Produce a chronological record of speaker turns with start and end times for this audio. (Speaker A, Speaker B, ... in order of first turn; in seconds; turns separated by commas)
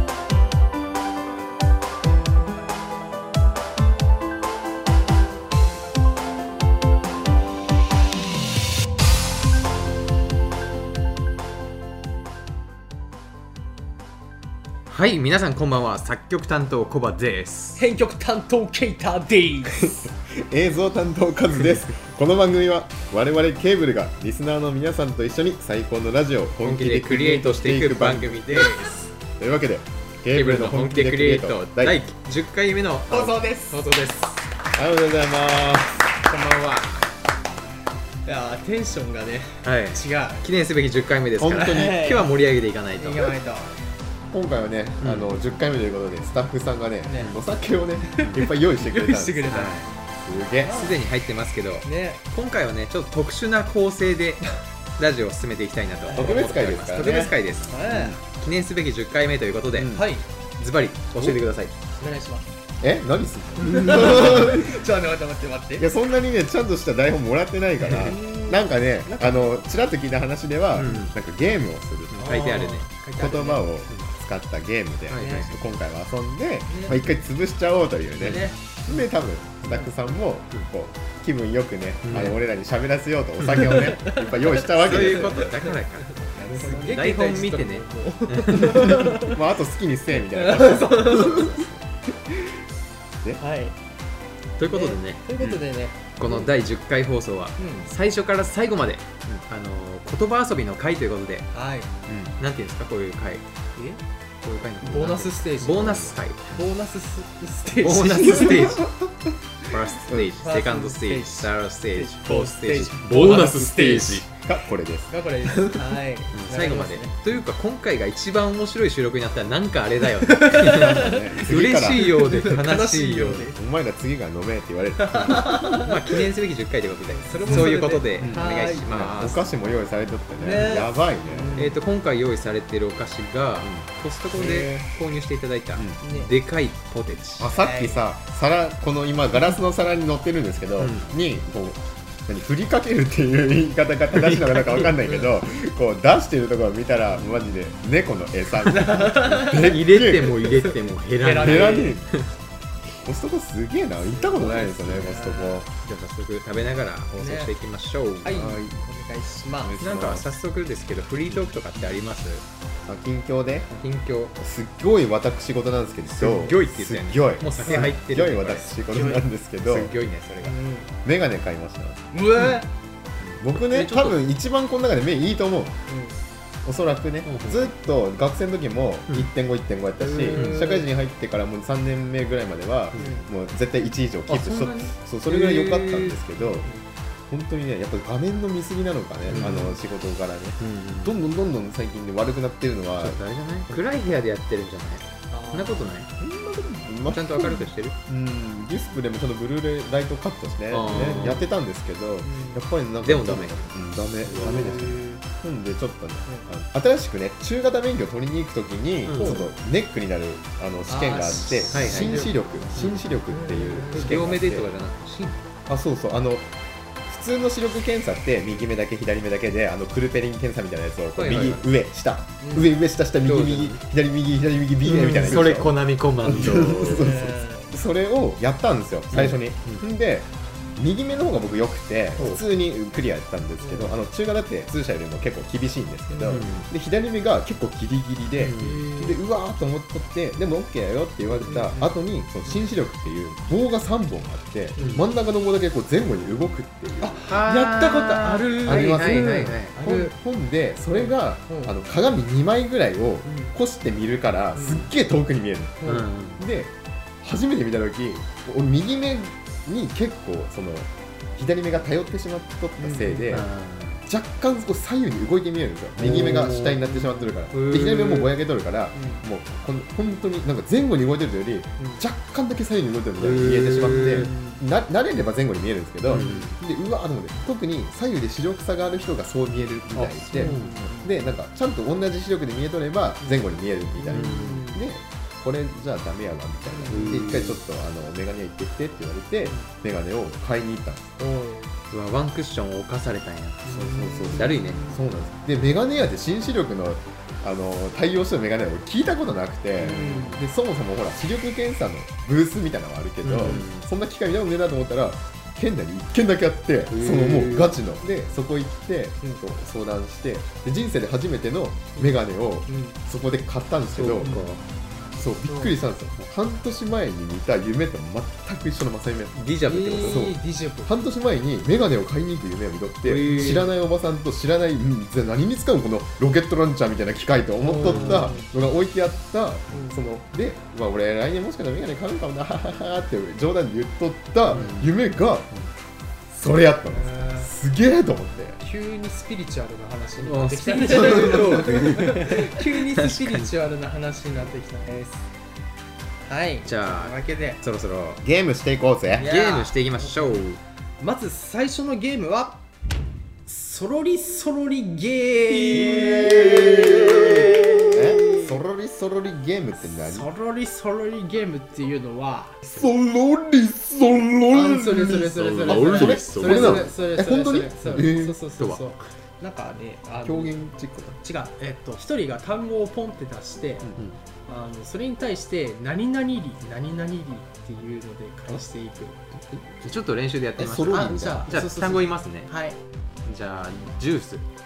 Speaker A: 14.9-17.8, Speaker B: 17.8-19.9, Speaker C: 19.7-28.8, Speaker A: 26.6-28.9, Speaker B: 28.5-29.1, Speaker C: 29.4-32.0, Speaker A: 30.3-34.4, Speaker C: 33.1-33.8, Speaker C: 34.7-36.2, Speaker B: 36.2-37.0, Speaker B: 38.2-40.5, Speaker A: 39.6-43.3, Speaker C: 41.4-42.1, Speaker B: 41.6-42.3, Speaker B: 43.0-43.7, Speaker C: 44.3-49.5, Speaker A: 45.0-45.3, Speaker B: 47.0-47.3, Speaker B: 48.1-49.8, Speaker A: 49.5-49.9, Speaker C: 50.2-50.8, Speaker B: 50.6-51.0, Speaker A: 50.7-60.0, Speaker B: 51.8-52.2, Speaker B: 56.1-56.4, Speaker C: 56.1-57.2, Speaker B: 57.0-58.2, Speaker C: 57.9-58.1, Speaker C: 59.8-60.1, Speaker B: 59.9-60.2, Speaker A: 60.6-61.7, Speaker C: 61.1-61.4, Speaker B: 62.0-62.5, Speaker C: 62.8-64.8, Speaker B: 63.6-65.9, Speaker A: 63.7-64.5, Speaker C: 65.8-72.4, Speaker A: 67.8-68.1, Speaker B: 67.9-69.6, Speaker A: 70.7-71.1, Speaker A: 72.1-72.8, Speaker B: 72.2-73.7, Speaker C: 73.2-85.4, Speaker A: 75.1-75.5, Speaker B: 75.1-75.5, Speaker B: 76.7-77.0, Speaker B: 78.2-79.0, Speaker A: 82.0-82.4, Speaker A: 83.4-83.9, Speaker B: 83.6-89.4, Speaker A: 84.6-89.0, Speaker C: 88.6-91.8, Speaker B: 90.2-91.6, Speaker B: 93.4-93.7, Speaker A: 94.6-95.2, Speaker B: 94.7-96.5, Speaker C: 95.4-95.6, Speaker A: 96.2-101.5, Speaker B: 97.6-97.9, Speaker B: 101.5-101.9, Speaker C: 102.1-102.3, Speaker A: 102.4-103.4, Speaker A: 104.4-106.6, Speaker B: 104.8-108.7, Speaker A: 107.8-108.9, Speaker C: 108.2-108.9, Speaker A: 109.6-114.3, Speaker C: 110.1-110.3, Speaker B: 110.4-114.2, Speaker C: 114.4-115.9, Speaker B: 115.1-117.2, Speaker A: 116.3-123.5, Speaker B: 120.2-123.5, Speaker C: 120.7-122.0, Speaker C: 123.5-125.7, Speaker B: 125.0-126.1, Speaker A: 125.7-129.4, Speaker B: 127.1-128.9, Speaker C: 127.5-131.7, Speaker B: 130.4-131.7, Speaker A: 131.5-137.5, Speaker C: 133.6-134.9, Speaker C: 135.8-136.1, Speaker B: 136.0-136.3, Speaker C: 137.4-150.8, Speaker B: 137.5-138.0, Speaker A: 140.8-141.1, Speaker A: 144.1-145.4, Speaker B: 148.7-149.7, Speaker A: 149.4-152.2, Speaker B: 151.2-152.0, Speaker C: 151.4-152.1, Speaker C: 153.0-155.7, Speaker B: 154.2-155.7, Speaker A: 154.4-154.8, Speaker A: 155.7-158.5, Speaker B: 157.2-157.5, Speaker B: 158.2-159.8, Speaker C: 158.3-158.8, Speaker C: 159.6-160.3, Speaker A: 159.8-162.4, Speaker C: 162.8-163.7, Speaker A: 163.7-164.3, Speaker C: 164.4-169.9, Speaker A: 166.1-168.7, Speaker B: 167.6-167.9, Speaker B: 168.9-169.2, Speaker A: 169.6-170.6, Speaker B: 170.4-170.9, Speaker C: 171.0-172.0, Speaker B: 172.1-172.7, Speaker A: 173.2-174.2, Speaker C: 173.4-175.8, Speaker B: 175.9-176.2, Speaker C: 176.6-186.7, Speaker A: 177.2-177.7, Speaker B: 180.0-180.8, Speaker A: 180.3-180.8, Speaker B: 182.9-183.3, Speaker A: 184.3-186.2, Speaker C: 187.3-193.8, Speaker A: 189.3-189.7, Speaker B: 189.3-189.8, Speaker A: 190.6-191.2, Speaker A: 193.0-196.1, Speaker B: 195.3-195.9, Speaker C: 196.2-214.7, Speaker A: 197.1-197.9, Speaker A: 200.7-201.4, Speaker B: 200.9-201.4, Speaker B: 202.2-202.6, Speaker A: 203.0-203.6, Speaker B: 204.3-205.2, Speaker A: 204.3-204.8, Speaker A: 209.1-209.4, Speaker B: 209.2-209.5, Speaker B: 210.9-212.3, Speaker A: 211.7-212.2, Speaker B: 213.3-214.2, Speaker A: 213.9-215.3, Speaker C: 215.7-216.5, Speaker C: 217.1-247.2, Speaker A: 221.1-221.6, Speaker B: 222.4-222.7, Speaker A: 223.2-223.8, Speaker A: 224.8-227.1, Speaker B: 226.8-227.7, Speaker A: 229.1-229.8, Speaker A: 232.2-232.4, Speaker B: 233.6-233.9, Speaker B: 236.1-236.4, Speaker A: 236.2-236.7, Speaker A: 238.3-238.8, Speaker B: 238.6-239.2, Speaker B: 241.4-241.9, Speaker B: 244.8-245.0, Speaker A: 244.8-245.0, Speaker B: 247.0-250.1, Speaker A: 247.3-249.7, Speaker C: 248.6-263.5, Speaker B: 250.9-251.7, Speaker B: 253.2-253.5, Speaker B: 254.5-254.9, Speaker A: 255.8-256.4, Speaker B: 262.8-263.3, Speaker A: 263.3-264.0, Speaker C: 264.1-291.1, Speaker A: 266.0-266.8, Speaker B: 266.8-267.3, Speaker A: 267.5-268.3, Speaker B: 268.9-269.2, Speaker B: 271.8-272.0, Speaker A: 273.2-274.3, Speaker B: 274.0-274.6, Speaker A: 276.1-276.5, Speaker B: 276.1-276.4, Speaker A: 279.9-280.8, Speaker B: 280.3-281.2, Speaker B: 284.0-284.8, Speaker A: 284.1-284.7, Speaker B: 286.7-287.1, Speaker A: 286.9-287.6, Speaker B: 289.4-289.7, Speaker B: 291.2-291.7, Speaker A: 291.9-293.8, Speaker B: 293.7-295.0, Speaker C: 293.7-314.4, Speaker A: 294.3-294.9, Speaker B: 299.8-300.4, Speaker A: 303.2-303.9, Speaker B: 303.4-303.7, Speaker A: 306.9-307.7, Speaker B: 312.7-313.0, Speaker A: 313.9-314.6, Speaker B: 314.2-314.5, Speaker C: 315.1-319.4, Speaker B: 315.5-315.7, Speaker A: 319.3-320.3, Speaker B: 319.6-320.9, Speaker C: 319.9-335.5, Speaker A: 323.0-323.7, Speaker B: 327.6-328.5, Speaker A: 327.8-328.3, Speaker B: 329.7-330.0, Speaker A: 334.5-334.9, Speaker C: 336.3-338.6, Speaker B: 336.9-337.5, Speaker B: 338.6-345.2, Speaker A: 340.2-343.6, Speaker C: 340.9-341.7, Speaker B: 346.2-347.6, Speaker A: 346.6-348.2, Speaker C: 348.2-349.3, Speaker B: 349.2-350.4, Speaker A: 349.2-350.6, Speaker B: 351.0-352.6, Speaker B: 353.5-358.6, Speaker C: 355.7-360.3, Speaker B: 359.9-362.6, Speaker C: 362.6-368.4, Speaker B: 364.5-370.6, Speaker A: 365.4-366.9, Speaker A: 367.9-368.9, Speaker C: 370.2-371.2, Speaker B: 371.2-373.9, Speaker C: 373.8-374.1, Speaker B: 374.5-379.2, Speaker C: 379.4-379.9, Speaker A: 379.8-382.5, Speaker C: 380.6-381.5, Speaker B: 380.9-382.8, Speaker A: 383.2-384.4